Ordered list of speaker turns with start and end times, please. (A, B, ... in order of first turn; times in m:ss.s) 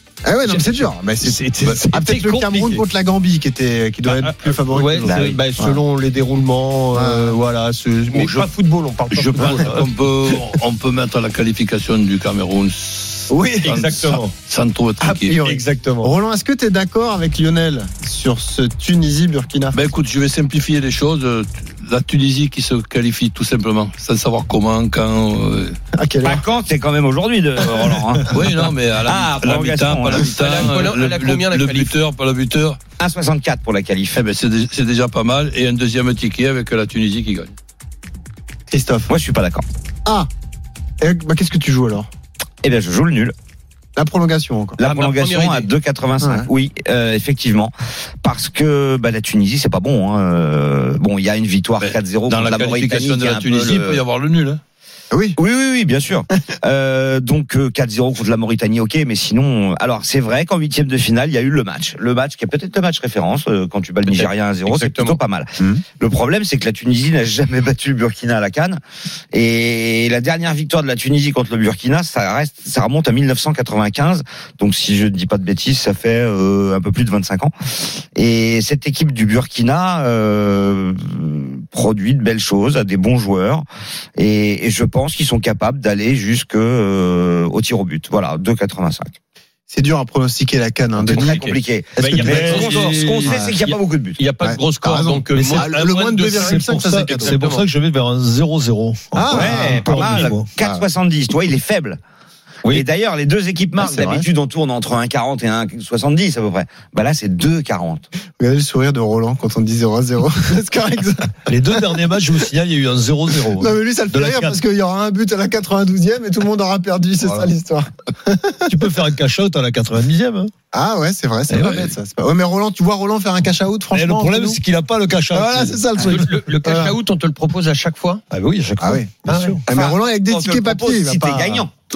0:00.2-0:05.8 A
0:00.5-0:02.8 B
0:04.1-0:09.9 B
0:05.1-0:05.4 C
0:06.9-0:07.4 A
0:09.1-0:15.4 D
0:13.3-0:13.8 A
0:13.6-0:14.3 B
0:15.0-0:19.8 A
0:15.3-0:16.1 B
0:19.7-0:25.8 D
0:26.0-0:26.4 A
0:26.2-0:28.4 C
0:28.3-0:32.8 D
0:29.0-0:30.7 C
0:30.3-0:32.0 B
0:33.0-0:34.2 C
0:34.2-0:37.5 D
0:38.7-0:39.1 A
0:39.1-0:39.6 C
0:41.0-0:42.1 A
0:42.6-0:43.4 C
0:44.0-0:44.8 A
0:44.8-0:54.0 C
0:44.8-0:45.7 B
0:46.2-0:46.5 A
0:51.8-0:54.6 D
0:55.1-0:55.4 A
0:55.4-1:08.8 C
1:04.1-1:05.2 B
1:09.3-1:23.6 C
1:24.2-1:29.2 C
1:29.7-1:31.5 A
1:31.0-1:34.2 C
1:31.1-1:37.7 B
1:32.0-1:32.7 A
1:32.0-1:33.4 E
1:33.2-1:33.6 A
1:34.4-1:37.4 A
1:35.3-1:40.5 E
1:39.1-1:40.9 A
1:39.3-1:42.0 C
1:42.7-1:48.1 C
1:43.8-1:44.3 A
1:48.4-1:52.1 A
1:51.5-1:54.6 E
1:53.5-1:58.8 A
1:58.7-2:00.5 E
2:00.7-2:04.6 A
2:01.5-2:01.9 E
2:03.9-2:06.3 E
2:05.3-2:07.0 A
2:06.0-2:08.2 B
2:08.3-2:09.6 E
2:08.8-2:11.7 A
2:09.3-2:09.6 B
2:09.7-2:11.7 C